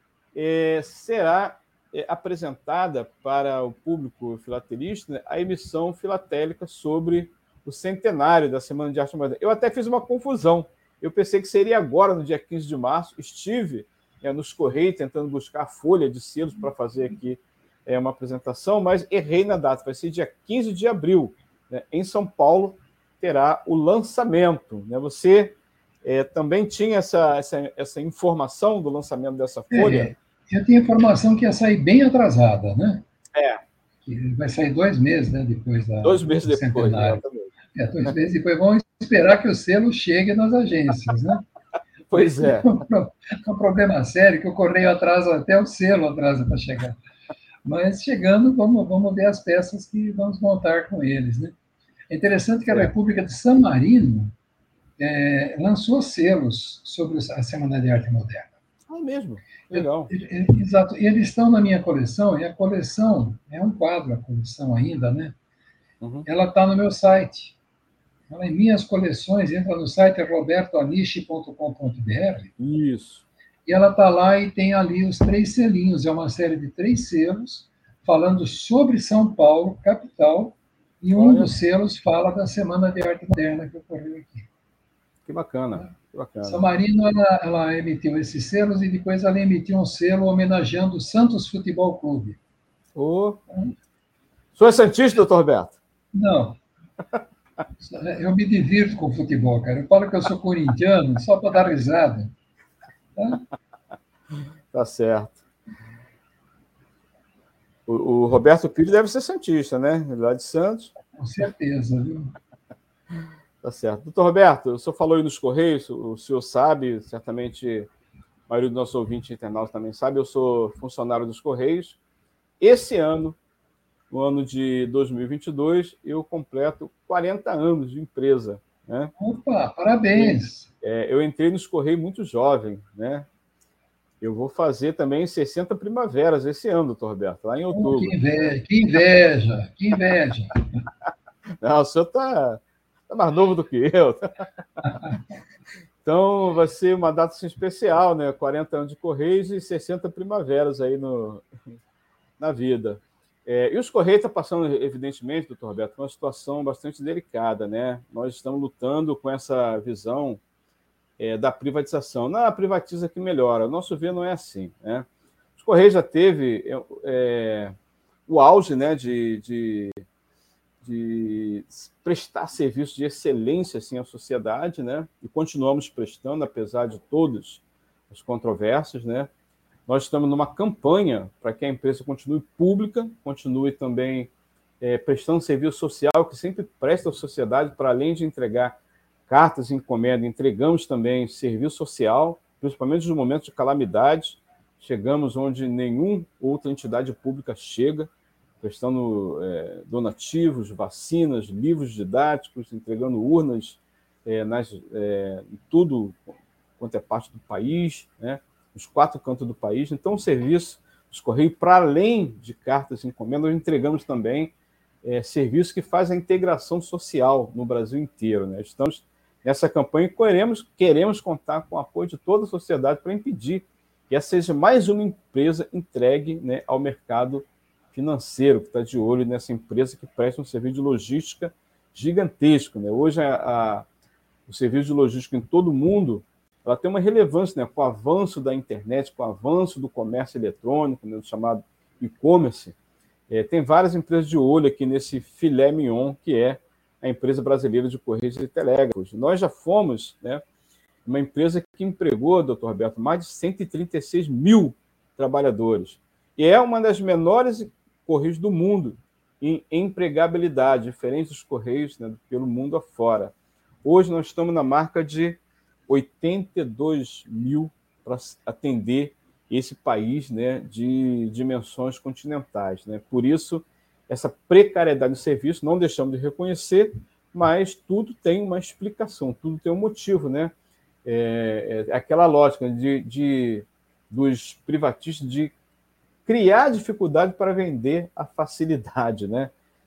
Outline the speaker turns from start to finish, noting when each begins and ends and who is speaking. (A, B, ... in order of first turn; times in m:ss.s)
0:00.3-0:30.1 A
0:29.7-0:33.0 B
0:33.3-0:33.6 A
0:34.0-0:37.2 B
0:36.0-0:37.5 A
0:37.7-0:41.4 B
0:42.1-0:42.8 A
0:42.1-0:47.0 B
0:47.6-0:51.5 B
0:52.1-0:54.3 B
0:55.0-0:58.5 B
0:58.9-1:00.1 A
0:59.7-1:05.3 B
1:06.0-1:06.2 A
1:06.2-1:07.6 B
1:08.3-1:12.5 B
1:12.6-1:13.2 A
1:13.6-1:24.5 B
1:21.1-1:21.5 A
1:25.2-1:26.6 A
1:26.4-1:32.4 B
1:32.9-1:33.4 A
1:34.6-1:35.8 A
1:36.1-1:36.6 B
1:37.8-1:42.3 B
1:43.2-1:43.4 B
1:44.7-1:45.4 A
1:47.9-1:50.9 A
1:51.1-1:52.3 B
1:53.6-1:57.9 A
1:58.5-2:02.0 A
2:02.6-2:03.4 A
2:04.1-2:09.1 A
2:09.2-2:10.7 B
2:10.1-2:13.3 A
2:14.2-2:18.1 A
2:17.7-2:20.6 B
2:21.6-2:24.4 A
2:24.8-2:25.1 B
2:26.0-2:31.5 A
2:32.4-2:40.4 A
2:41.2-2:47.8 A
2:48.3-2:50.0 A
2:50.8-2:59.3 A
2:59.9-3:08.8 A
3:09.3-3:18.1 A
3:18.6-3:34.5 A
3:35.0-3:53.9 A
3:54.5-4:02.7 A
4:03.3-4:10.4 A
4:11.0-4:40.5 A
4:41.0-4:45.5 A
4:46.2-4:49.5 A